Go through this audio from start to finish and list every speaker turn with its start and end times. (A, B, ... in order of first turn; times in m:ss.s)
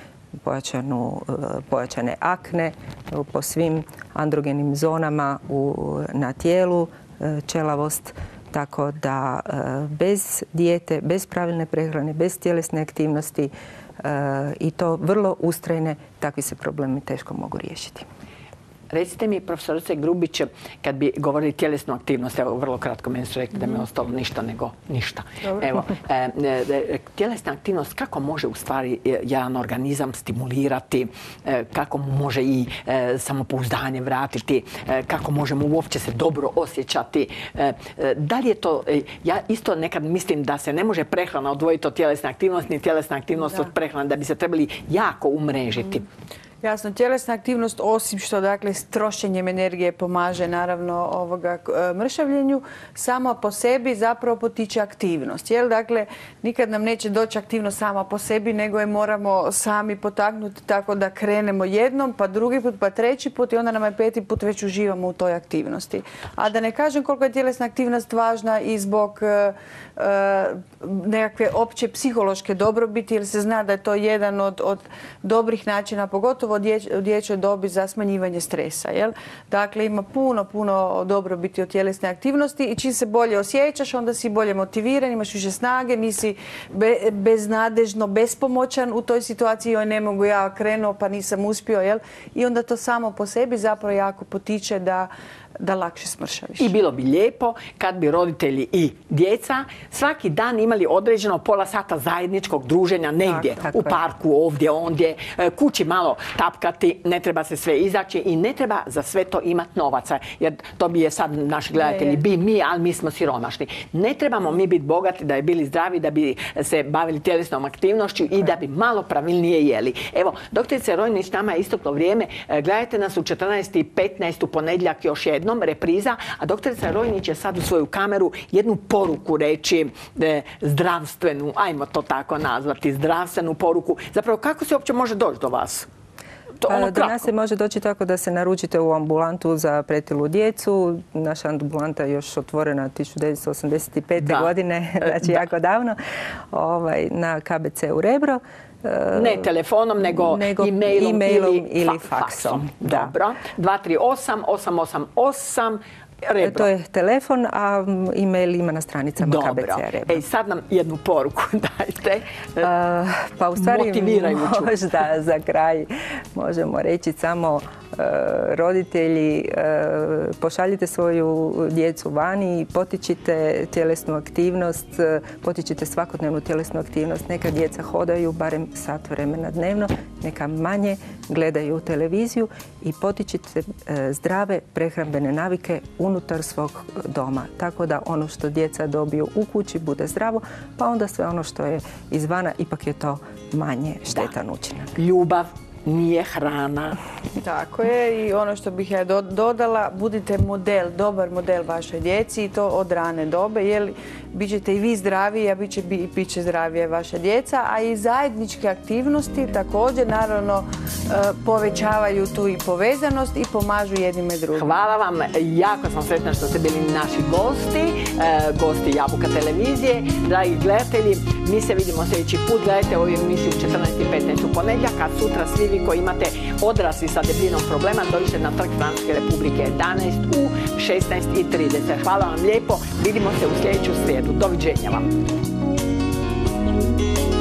0:00.4-0:18.0 A
0:18.9-0:46.1 B
0:46.6-1:36.7 C
1:36.6-2:15.9 B
1:43.7-1:44.0 A
1:51.8-1:52.2 C
2:16.6-2:17.3 B
2:16.7-2:26.0 A
2:24.2-2:25.4 B
2:26.5-2:29.5 A
2:29.1-2:36.7 B
2:30.0-2:33.1 A
2:36.4-2:40.2 A
2:39.2-2:42.7 B
2:42.6-3:15.0 A
2:43.6-2:44.8 B
3:15.0-3:17.0 B
3:17.3-3:34.7 C
3:34.5-3:55.1 B